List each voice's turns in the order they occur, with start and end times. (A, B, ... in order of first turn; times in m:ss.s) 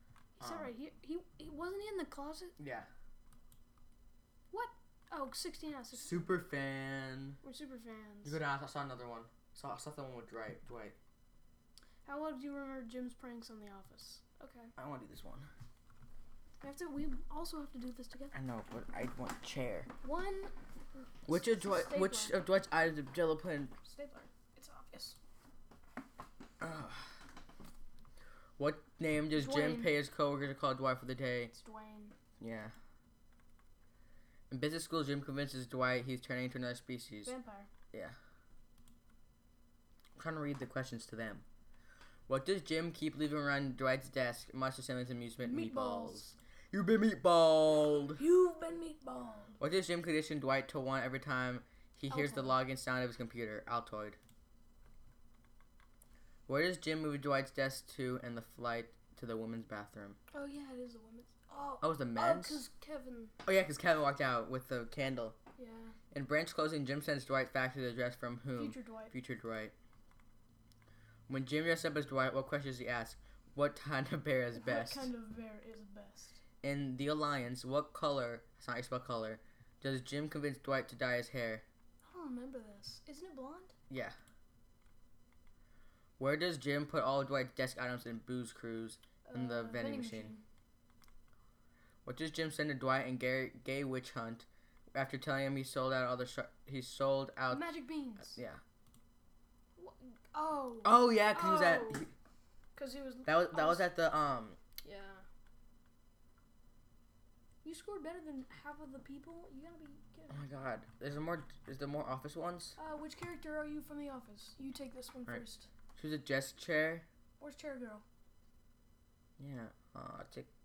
0:00.4-0:02.6 A
0:00.4-0:00.7 B
0:02.6-0:02.9 B
0:04.5-0:06.4 A
0:05.9-0:07.4 B
0:07.4-0:08.4 A
0:08.2-0:11.0 B
0:12.0-0:14.7 A
0:14.8-0:15.5 B
0:16.6-0:18.3 A
0:18.3-0:19.9 B
0:20.0-0:22.4 A
0:21.3-0:23.7 B
0:23.8-0:25.2 A
0:26.6-0:27.1 B
0:28.6-0:31.5 B
0:29.3-0:29.9 A
0:31.5-0:32.2 A
0:32.4-0:32.7 B
0:34.5-0:37.3 B
0:37.2-0:37.7 A
0:40.2-0:41.4 B
0:42.3-0:48.2 B
0:45.4-0:46.4 A
0:48.2-0:49.6 A
0:49.6-0:54.2 B
0:52.1-0:52.6 A
0:56.5-1:00.2 B
1:00.3-1:03.3 A
1:01.8-1:02.6 B
1:03.4-1:05.4 B
1:05.6-1:06.0 A
1:06.1-1:09.7 B
1:08.5-1:09.1 A
1:11.3-1:15.1 B
1:14.5-1:16.4 A
1:16.6-1:21.6 B
1:22.0-1:23.7 A
1:23.9-1:24.2 B
1:26.2-1:30.3 B
1:29.2-1:30.4 A
1:32.0-1:38.6 B
1:37.5-1:38.4 A
1:39.8-1:42.1 A
1:40.8-1:42.1 B
1:42.7-1:43.9 A
1:43.2-1:44.6 B
1:44.8-1:45.2 A
1:47.6-1:50.6 A
1:50.3-1:52.8 B
1:52.8-1:55.7 A
1:56.0-1:57.0 B
1:57.4-1:58.0 A
1:59.4-2:00.5 B